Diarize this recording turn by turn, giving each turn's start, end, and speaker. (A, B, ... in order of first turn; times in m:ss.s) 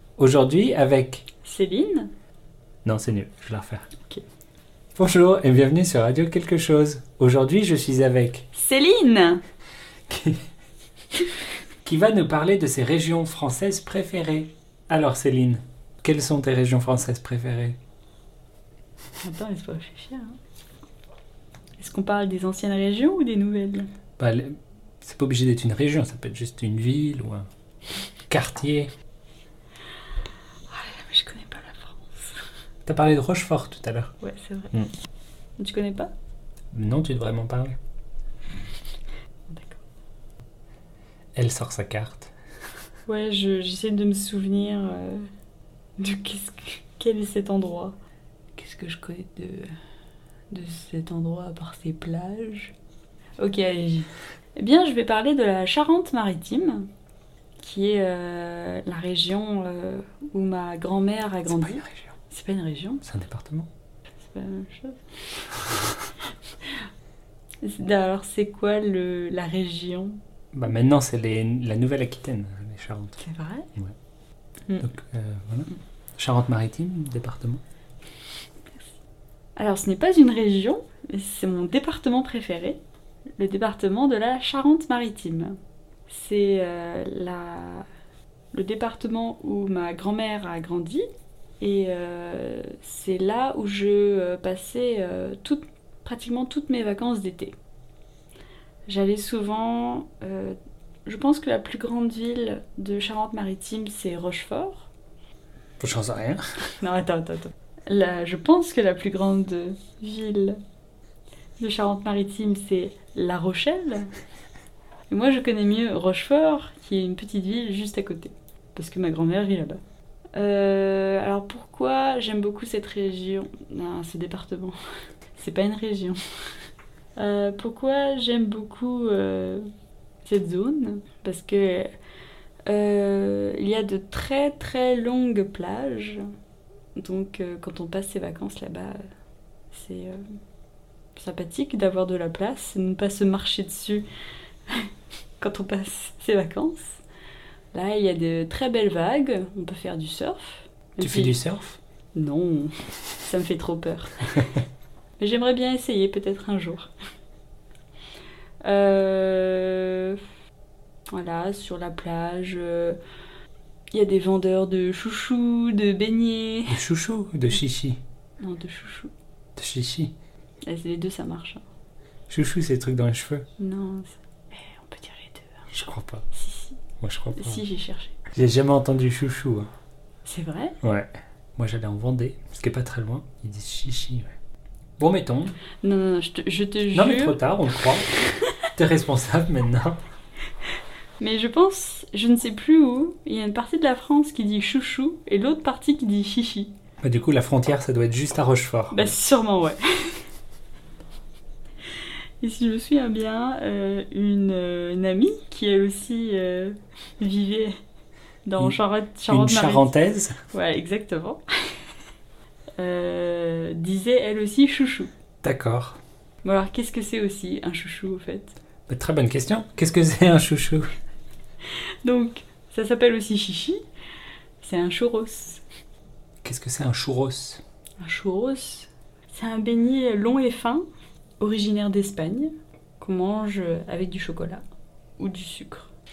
0:00.2-0:01.2 A
0:01.4-0:02.1 B
0:02.8-0:03.9 A
0:05.0-0:08.5 A
0:08.5-0:09.4 B
0:10.1-0:10.4 A
0:11.8-0:17.8 A
0:19.2-0:20.4 B
0:21.8-0:23.9 B
0:24.2-0:27.5 A
0:28.3-0:28.9 A
0:30.7-0:32.4 B
0:32.9-0:34.1 A
0:34.2-0:34.7 B
0:35.6-0:36.1 B
0:36.7-0:37.8 A
0:39.5-0:39.8 B
0:41.4-0:42.3 A
0:43.1-0:45.2 B
0:46.0-0:48.0 B
0:48.6-0:49.7 B
0:50.5-0:52.8 B
0:53.4-0:56.9 B
0:57.6-1:03.0 B
1:01.5-1:01.9 A
1:03.0-1:03.7 A
1:04.2-1:05.4 B
1:07.6-1:10.2 B
1:10.5-1:13.2 A
1:13.2-1:13.7 B
1:14.8-1:17.6 A
1:19.6-1:22.8 B
1:23.4-1:25.6 B
1:26.1-1:27.9 B
1:28.5-1:31.1 B
1:31.6-1:37.6 B
1:38.9-1:44.9 B
1:45.8-1:46.4 A
1:46.7-1:50.6 B
1:51.6-1:54.1 B
1:55.1-1:59.8 B
2:00.4-2:04.8 B
2:05.4-2:06.2 B
2:07.2-2:09.7 B
2:10.2-2:11.9 B
2:12.7-2:16.2 B
2:17.0-2:19.0 B
2:19.7-2:20.2 B
2:21.2-2:24.0 B
2:25.4-2:27.0 B
2:27.7-2:31.4 B
2:31.0-2:31.8 A
2:32.2-2:34.3 B
2:35.2-2:36.9 B
2:38.6-2:40.2 B
2:41.1-2:43.0 B
2:43.9-2:46.8 B
2:46.7-2:48.0 A
2:48.4-2:49.1 B
2:49.6-2:50.1 A
2:50.6-2:51.6 B
2:52.3-2:53.4 A
2:53.6-2:55.6 B
2:55.7-2:56.2 A
2:56.3-2:56.8 B
2:57.0-2:57.6 A
2:57.3-2:58.2 B
2:58.3-2:59.7 A
3:00.3-3:00.8 B
3:00.8-3:04.3 A
3:05.0-3:05.6 A
3:05.8-3:07.4 B
3:06.9-3:08.1 A
3:08.8-3:10.0 A
3:11.2-3:16.7 B
3:17.0-3:19.1 A
3:18.9-3:20.2 B
3:22.4-3:27.8 B
3:28.5-3:29.9 B
3:29.3-3:30.4 A
3:30.5-3:31.4 B
3:32.8-3:35.1 B
3:35.4-3:36.0 A
3:36.4-3:38.6 B
3:38.9-3:40.9 A
3:42.0-3:43.8 B
3:44.6-3:45.6 B
3:46.4-3:47.6 A
3:48.0-3:50.8 B
3:51.4-3:54.6 B
3:55.2-3:55.9 B